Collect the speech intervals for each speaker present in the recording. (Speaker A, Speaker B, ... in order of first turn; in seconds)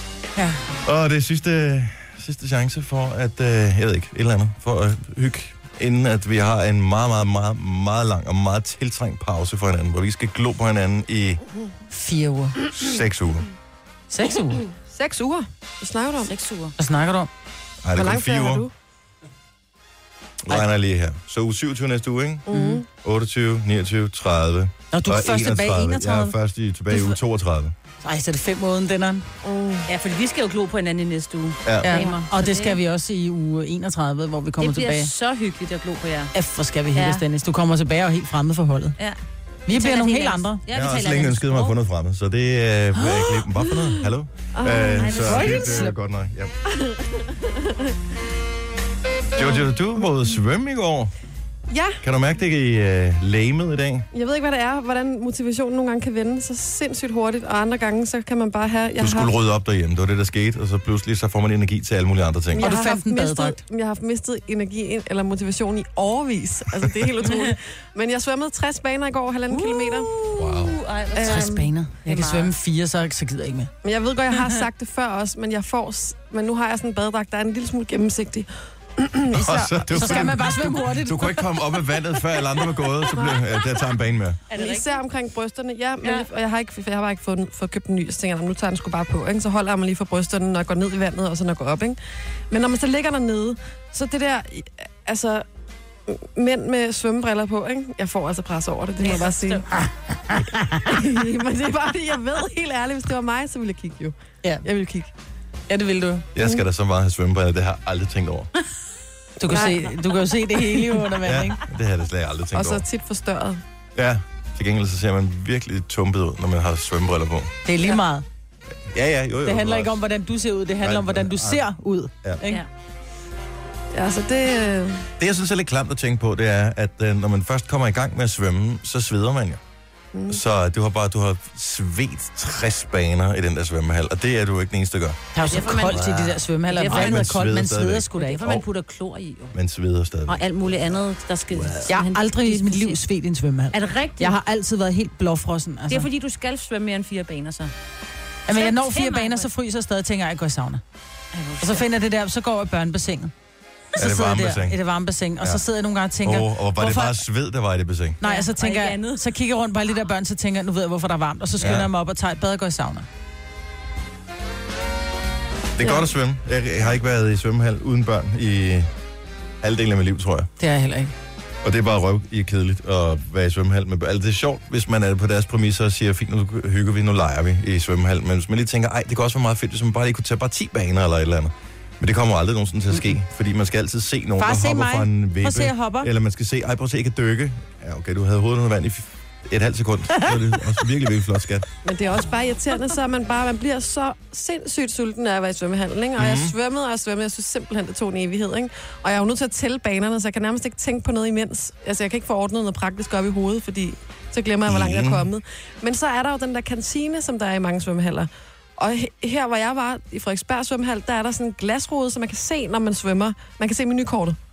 Speaker A: 0.8-11.4, 12.7-13.5, 17.8-18.7, 20.4-27.7, 31.6-32.0, 40.7-46.5, 49.4-51.1, 52.0-54.1, 59.0-62.7, 70.3-70.8, 79.3-84.4, 106.3-108.5, 111.2-112.8, 114.0-117.5, 118.9-120.0, 120.8-121.7, 125.2-129.6, 130.3-138.6, 139.5-140.4, 141.5-141.9, 154.0-154.8, 156.2-158.2, 161.6-161.9, 165.8-168.9, 169.6-170.5, 171.6-191.7, 196.2-196.6, 204.7-205.3
Speaker B: 11.9-12.6, 14.1-14.7, 16.8-17.3, 22.5-22.8, 24.9-26.4, 26.9-27.2, 28.0-29.3, 31.8-35.1, 36.3-39.0, 39.7-40.6, 43.0-43.5, 45.1-45.9, 62.6-63.6, 71.2-73.7, 80.0-81.5, 100.3-100.8, 105.7-106.3, 109.4-111.6, 117.7-118.2, 119.5-122.6, 135.3-138.4, 141.9-146.1, 148.5-150.8, 151.6-153.3, 154.0-157.2, 158.2-163.1, 170.6-171.1, 184.4-186.1
Speaker C: 14.9-16.3, 17.9-18.7, 22.5-22.9, 29.4-29.9, 44.6-45.6, 46.7-47.9, 49.4-49.6, 51.7-52.0, 54.1-59.3, 62.5-70.1, 71.2-71.7, 73.8-80.4, 84.5-92.0, 92.5-95.5, 96.1-99.7, 100.9-105.1, 106.4-106.7, 109.4-110.0, 112.5-113.6, 123.9-125.1, 130.1-130.4, 191.8-214.4
Speaker D: 16.3-16.7, 29.9-32.8, 34.6-36.3, 36.9-37.2, 39.0-41.8, 45.0-45.8, 69.5-72.5, 84.5-85.0, 99.0-99.7, 135.4-136.1, 136.7-137.3, 138.2-139.6, 140.3-143.0, 143.7-144.3, 145.9-147.7, 148.5-149.5, 151.3-151.9, 158.2-159.3